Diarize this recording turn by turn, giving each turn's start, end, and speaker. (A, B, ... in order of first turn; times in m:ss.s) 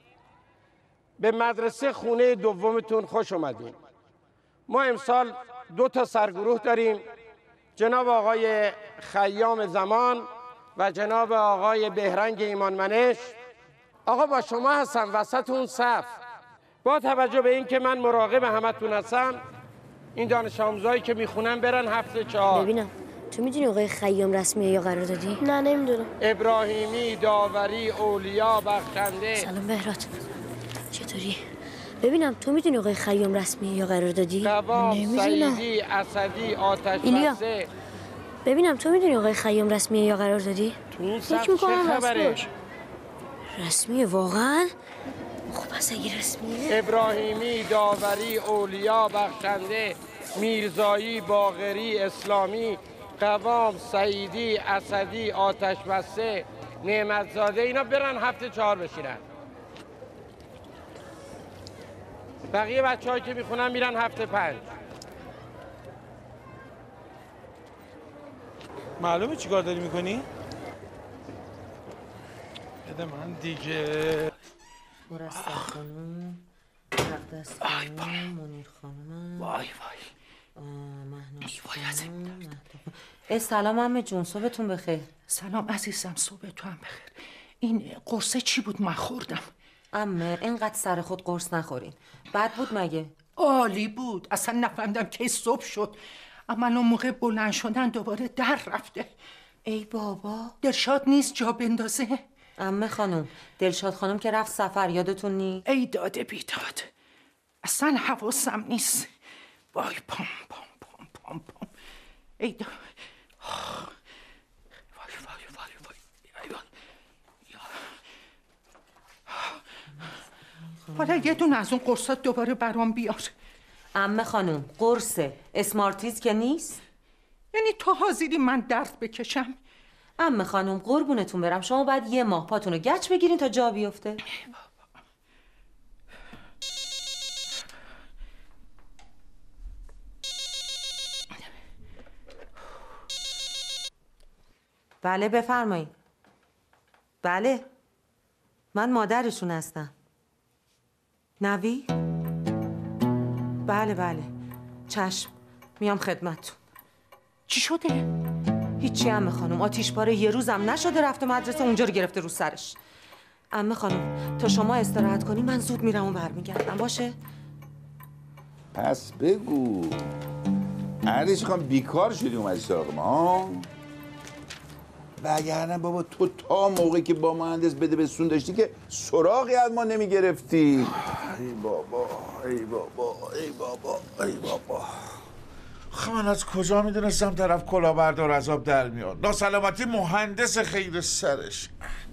0:01.2-0:03.7 A
0:04.7-0:07.0 A
0:07.8-0:13.3 A
0:14.1-0:16.1 A
0:16.8-0:19.4 A
0:20.2-0:22.7 A
0:22.5-0:26.1 B
0:26.2-0:29.5 A
0:29.4-0:30.2 B
0:30.9-0:31.4 B
0:32.0-0:35.6 B
0:34.4-0:37.7 A
0:37.0-0:37.4 B
0:38.4-0:42.4 B
0:40.9-0:42.5 A
0:43.5-0:44.7 B
0:45.5-0:46.8 B
0:46.7-0:59.2 A
1:02.5-1:04.6 A
1:09.0-1:10.2 C
1:12.8-1:14.2 C
1:15.1-1:16.4 D
1:17.0-1:19.5 D
1:19.4-1:20.1 E
1:20.6-1:25.1 D
1:21.4-1:22.5 E
1:25.3-1:29.5 E
1:29.9-1:33.1 D
1:33.4-1:36.0 E
1:36.5-1:39.1 E
1:39.6-1:40.5 D
1:40.6-1:42.2 E
1:42.6-1:45.6 D
1:45.7-1:46.9 E
1:47.6-1:49.1 E
1:49.7-1:51.7 E
1:52.4-1:53.8 E
1:55.0-1:56.6 E
2:00.9-2:03.3 E
2:03.9-2:06.8 D
2:07.5-2:09.6 E
2:10.2-2:14.2 D
2:25.0-2:25.9 D
2:27.2-2:27.6 D
2:28.7-2:29.9 D
2:31.4-2:31.9 D
2:33.6-2:34.3 D
2:34.9-2:36.6 D
2:37.5-2:38.0 E
2:38.8-2:42.8 D
2:43.5-2:47.2 D
2:48.7-2:50.1 F
2:51.0-2:53.7 F
2:55.2-3:01.0 F
3:01.3-3:04.6 G
3:01.7-3:03.7 F
3:04.5-3:04.9 F
3:05.9-3:11.7 G